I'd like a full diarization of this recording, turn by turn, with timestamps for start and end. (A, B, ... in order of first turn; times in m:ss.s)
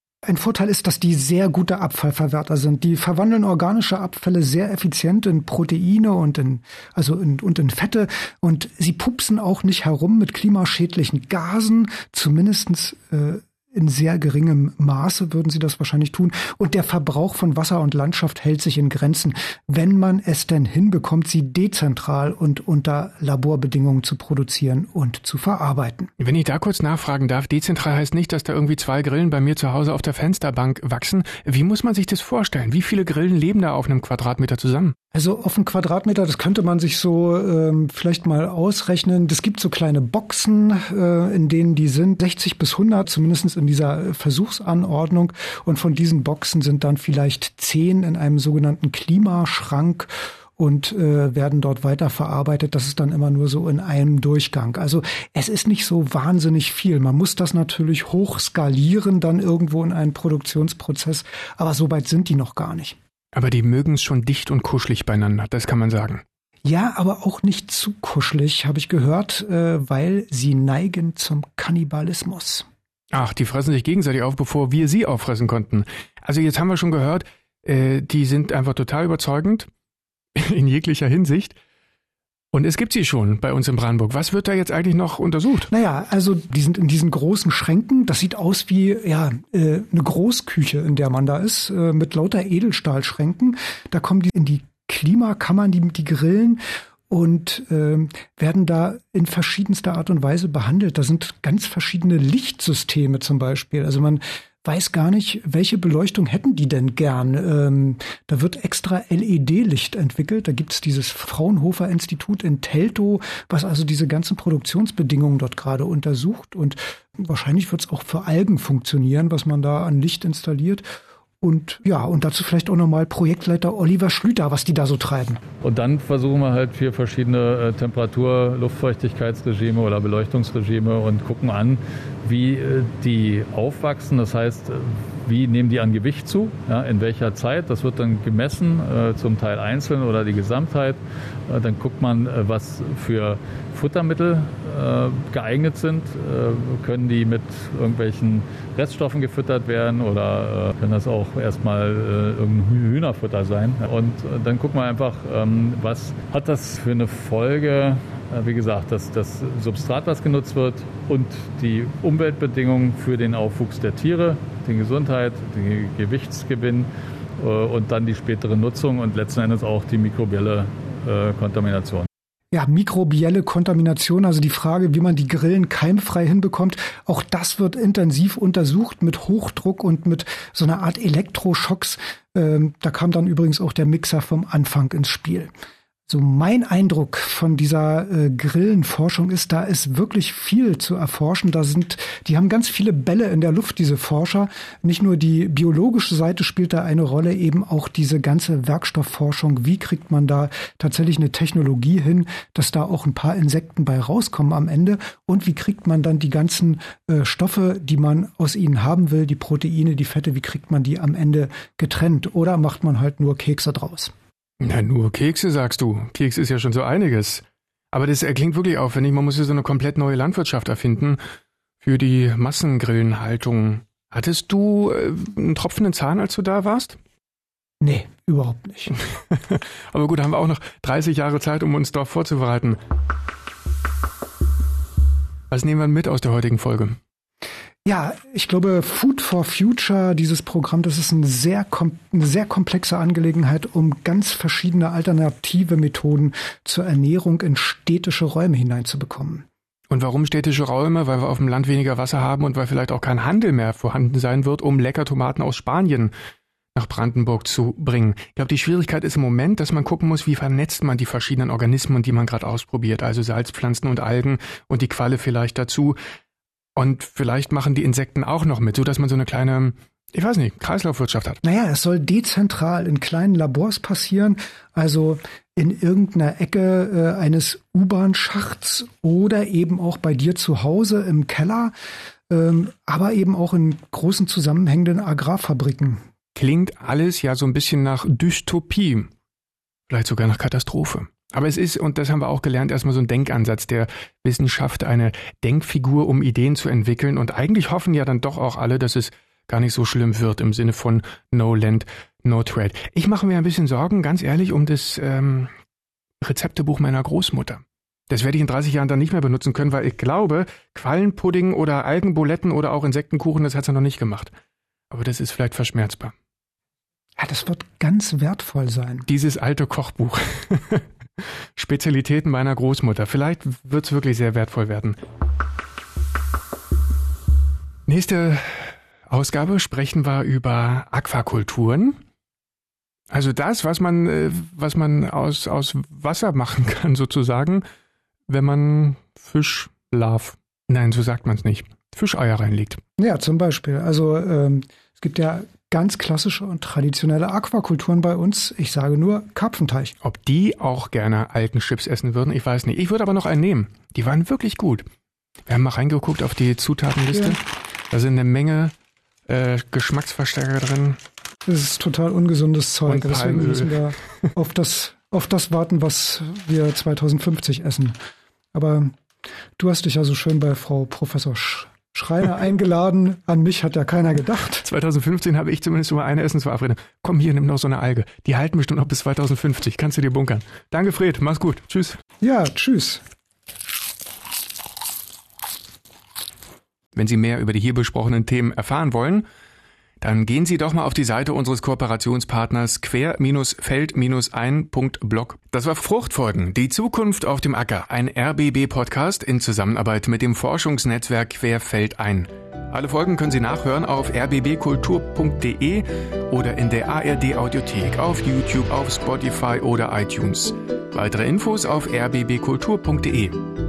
0:00.3-0:26.1 A
0:26.2-0:35.0 B
0:35.1-1:03.0 A
1:03.3-1:06.2 B
1:06.6-1:12.6 A
1:13.1-1:19.7 B
1:20.4-1:21.5 B
1:22.5-1:25.7 B
1:25.7-2:00.8 A
2:01.4-2:05.4 A
2:05.6-2:46.9 C
2:47.4-2:52.1 C
2:52.5-3:05.5 A
3:06.1-3:34.1 A
3:34.6-3:41.2 B
3:41.8-3:47.0 B
3:47.8-3:49.0 A
3:49.3-3:52.8 B
3:55.5-3:57.0 B
3:57.9-4:09.5 A
4:09.9-4:16.1 B
4:16.8-4:26.0 B
4:26.8-4:31.4 B
4:31.4-4:41.7 A
4:42.3-4:46.0 A
4:46.4-4:49.1 B
4:49.9-5:05.5 B
5:06.2-5:14.3 B
5:14.9-5:16.1 B
5:17.2-5:19.1 A
5:19.1-5:20.8 B
5:21.6-5:25.0 B
5:27.9-5:32.0 B
5:33.1-5:37.6 B
5:38.3-5:42.8 B
5:43.0-5:49.9 A
5:50.0-5:54.8 B
5:55.5-5:58.7 B
5:59.3-6:01.0 B
6:01.5-6:08.0 A
6:02.9-6:03.8 B
6:08.5-6:09.0 A
6:09.6-6:14.6 A
6:14.6-6:22.0 B
6:22.2-6:23.0 A
6:26.9-6:29.2 B
6:30.0-6:53.4 B